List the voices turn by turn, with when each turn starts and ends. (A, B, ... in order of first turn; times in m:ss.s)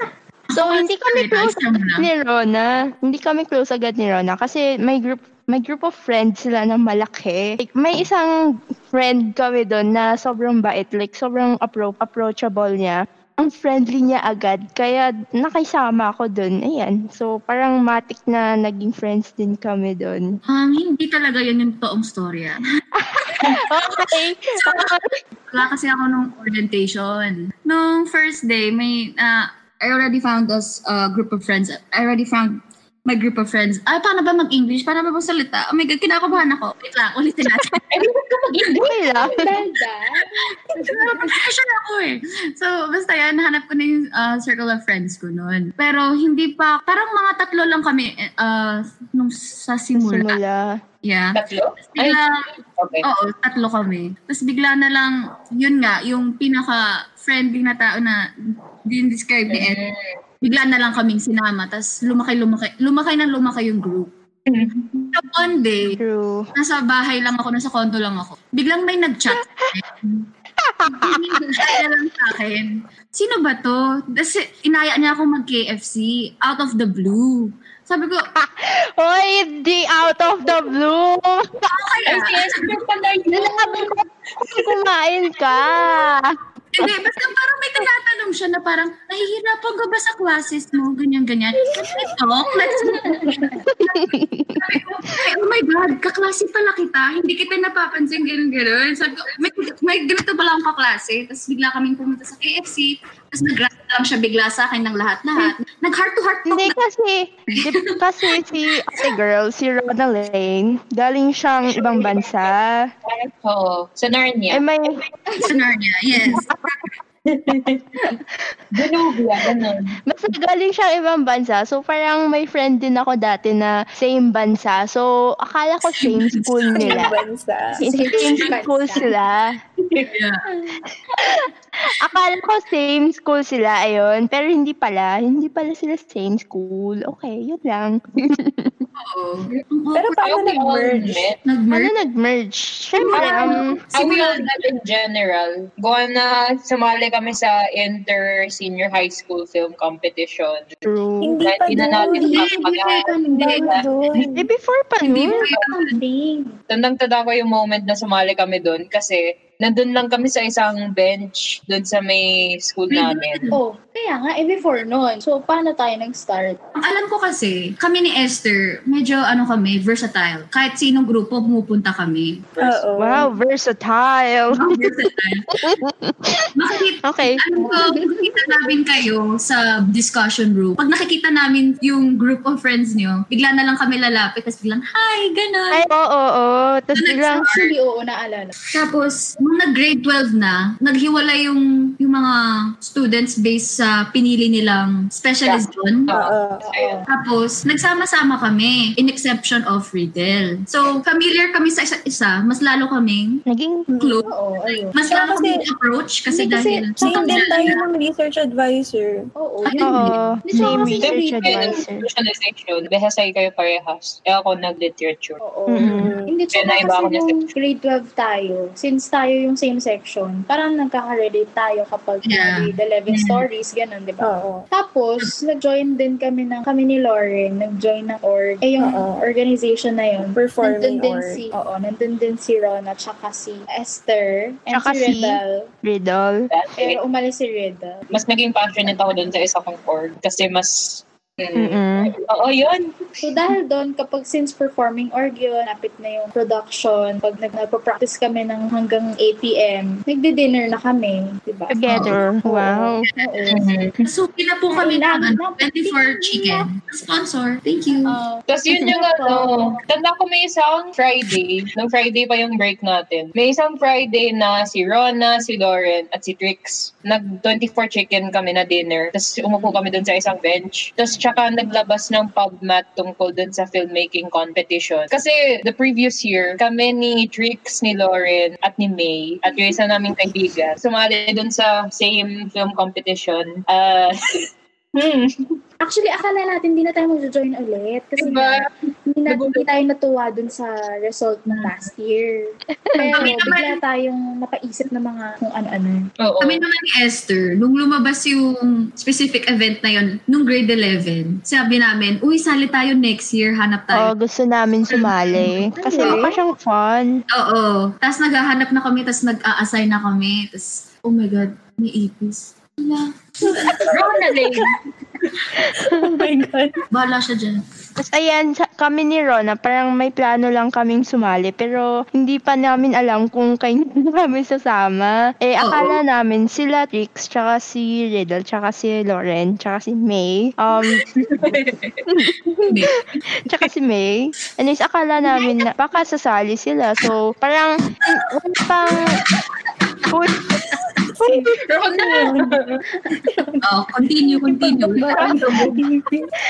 0:00.5-0:02.1 A
0:00.5-0:08.3 B
0:08.9-0:20.3 B
0:20.5-0:22.6 A
0:23.0-0:25.1 B
0:23.4-0:25.0 A
0:25.5-0:38.0 A
0:37.9-0:39.4 C
0:38.8-0:39.5 B
0:39.2-0:41.4 D
0:40.8-0:50.4 A
0:50.0-0:50.8 B
0:51.0-0:58.2 A
0:51.3-0:52.2 C
0:52.8-0:53.0 C
0:58.8-0:59.8 A
0:59.5-1:00.0 C
1:00.4-1:04.1 A
1:04.5-1:05.0 C
1:05.1-1:06.0 A
1:06.0-1:06.5 B
1:06.5-1:10.3 A
1:09.3-1:09.7 B
1:10.6-1:11.8 B
1:10.9-1:18.3 A
1:18.4-1:21.6 B
1:21.6-1:22.8 A
1:22.0-1:23.9 C
1:23.3-1:24.0 B
1:24.5-1:26.3 B
1:26.7-1:46.7 A
1:31.8-1:32.0 D
1:32.6-1:33.6 D
1:33.7-1:35.2 B
1:46.5-1:52.9 B
1:47.6-1:49.1 A
1:53.0-1:54.6 C
1:54.5-1:55.0 B
1:55.4-1:56.5 A
1:57.2-1:58.0 C
1:58.7-2:00.0 C
2:00.1-2:07.1 B
2:05.9-2:07.0 A
2:06.8-2:07.8 E
2:07.7-2:09.1 D
2:07.8-2:09.6 B
2:10.0-2:10.5 A
2:11.2-2:18.8 B
2:19.0-2:20.2 A
2:19.9-2:21.3 E
2:20.2-2:21.4 C
2:21.4-2:21.9 A
2:21.7-2:23.7 B
2:23.0-2:23.9 D
2:23.1-2:30.7 C
2:23.2-2:24.4 A
2:30.8-2:31.4 B
2:31.2-2:32.4 E
2:31.4-2:34.3 C
2:31.7-2:34.0 D
2:32.2-2:33.6 A
2:33.4-2:34.4 E
2:34.3-2:35.4 B
2:35.0-2:36.0 A
2:35.2-2:36.6 D
2:36.7-2:43.5 C
2:42.9-2:43.6 A
2:43.5-2:46.6 D
2:46.8-2:52.4 A
2:52.6-2:53.3 E
2:53.0-2:55.1 B
2:54.5-2:55.6 A
2:55.6-2:56.5 B
2:56.5-3:05.8 A
2:57.0-2:57.4 B
3:05.7-3:07.4 B
3:06.9-3:07.7 A
3:07.3-3:08.5 D
3:08.7-3:16.1 A
3:15.5-3:17.0 C
3:16.1-3:16.7 E
3:16.6-3:17.1 D
3:17.1-3:23.4 A
3:23.5-3:23.8 B
3:23.9-3:24.3 E
3:24.0-3:24.3 A
3:24.3-3:25.0 D
3:24.9-3:27.8 A
3:25.0-3:25.6 E
3:26.3-3:27.8 D
3:27.0-3:29.3 E
3:29.4-3:31.8 D
3:29.6-3:31.0 A
3:29.8-3:32.0 B
3:31.0-3:35.4 C
3:35.4-3:55.7 D
3:35.7-3:36.1 B
3:35.8-3:36.3 E
3:36.5-3:37.5 C
3:42.2-3:42.7 A
3:44.2-3:44.6 E
3:48.8-3:49.1 E
3:50.3-3:51.4 E
3:54.7-3:56.4 B
3:56.5-3:57.0 C
3:56.8-3:58.1 D
3:58.1-4:03.2 C
4:01.5-4:02.1 B
4:03.2-4:12.1 D
4:11.7-4:13.0 B
4:12.4-4:13.0 E
4:13.2-4:13.7 D
4:13.5-4:14.0 C
4:14.0-4:18.2 A
4:14.7-4:16.7 D
4:18.0-4:19.8 D
4:18.5-4:45.5 C
4:45.8-4:56.1 D
4:48.2-4:48.6 C
4:49.3-4:49.6 C
4:53.1-4:53.8 A
4:56.2-4:56.6 C
4:56.4-5:04.1 A
5:03.9-5:07.1 B
5:04.9-5:06.2 A
5:05.4-5:06.3 D
5:07.3-5:13.9 A
5:13.4-5:14.6 E
5:13.9-5:14.7 C
5:15.6-5:16.8 E
5:15.6-5:16.2 B
5:16.9-5:17.6 A
5:18.0-5:31.0 B
5:25.6-5:26.0 A
5:31.1-5:32.1 C
5:32.1-5:39.2 B
5:32.7-5:33.0 A
5:40.1-5:40.4 B
5:41.1-5:42.6 E
5:41.6-5:42.8 C
5:43.0-5:43.6 D
5:43.6-5:45.8 A
5:44.6-5:46.3 E
5:45.0-5:45.4 D
5:45.3-5:45.7 C